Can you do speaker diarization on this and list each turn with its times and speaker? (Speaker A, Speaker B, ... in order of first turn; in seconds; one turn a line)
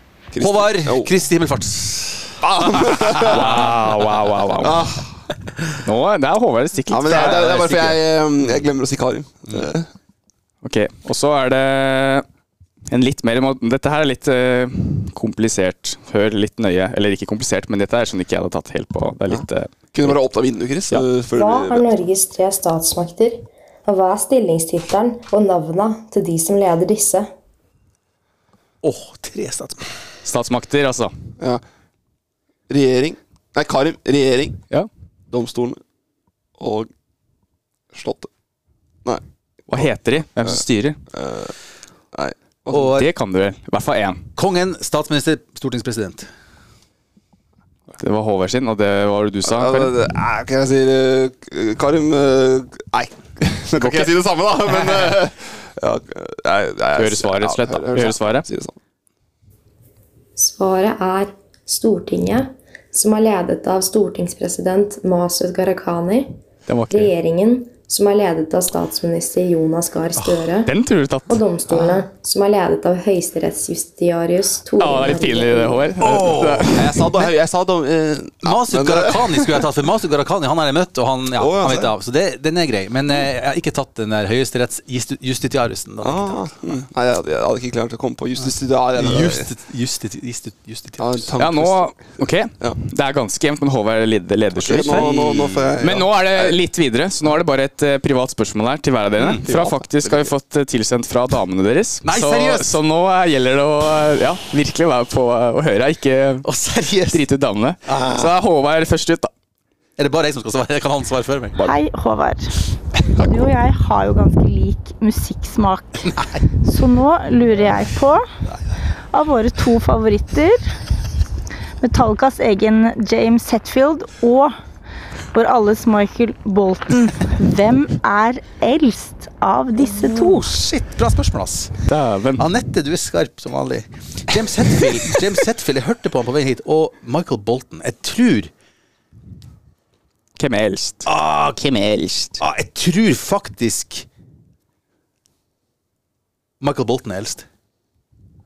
Speaker A: 0.3-1.1
Speaker B: 0.4-3.6
Speaker A: 2.4-3.7
Speaker C: 3.3-4.9
Speaker A: 4.6-5.0
Speaker C: 5.8-7.9
Speaker A: 6.9-9.9
Speaker B: 7.2-7.5
Speaker C: 10.6-12.2
Speaker C: 12.9-20.2
Speaker A: 19.3-22.0
Speaker D: 21.3-27.3
Speaker B: 28.8-29.8
Speaker C: 30.2-31.1
Speaker A: 32.7-34.6
Speaker A: 35.3-35.8
Speaker A: 36.6-36.9
Speaker A: 37.9-38.3
Speaker A: 39.0-39.9
Speaker C: 39.7-41.0
Speaker A: 41.1-41.5
Speaker A: 42.1-42.9
Speaker B: 42.7-43.1
Speaker C: 42.9-44.2
Speaker B: 44.4-46.3
Speaker C: 48.0-49.9
Speaker A: 49.4-58.8
Speaker C: 53.8-54.1
Speaker C: 57.0-58.5
Speaker D: 60.4-66.3
Speaker C: 66.7-67.1
Speaker D: 66.9-70.7
Speaker C: 70.6-71.3
Speaker D: 71.3-75.8
Speaker C: 74.8-77.0
Speaker B: 76.0-76.8
Speaker A: 76.7-79.6
Speaker B: 78.4-86.8
Speaker A: 81.4-81.9
Speaker A: 86.0-89.5
Speaker B: 88.4-91.2
Speaker A: 91.0-92.8
Speaker C: 91.4-95.1
Speaker A: 94.6-96.6
Speaker B: 94.8-95.7
Speaker C: 95.8-106.4
Speaker B: 99.2-99.4
Speaker A: 99.4-100.3
Speaker B: 102.0-102.8
Speaker B: 106.4-107.2
Speaker C: 107.1-109.3
Speaker B: 107.8-108.3
Speaker B: 110.0-111.6
Speaker E: 111.6-112.5
Speaker E: 113.1-118.2
Speaker E: 119.1-120.6
Speaker E: 121.8-124.6
Speaker E: 125.3-130.5
Speaker B: 130.1-131.7
Speaker C: 131.8-132.4
Speaker B: 132.4-138.5
Speaker C: 140.4-141.0
Speaker B: 141.0-141.7
Speaker C: 141.6-142.4
Speaker B: 142.4-144.1
Speaker B: 146.6-147.4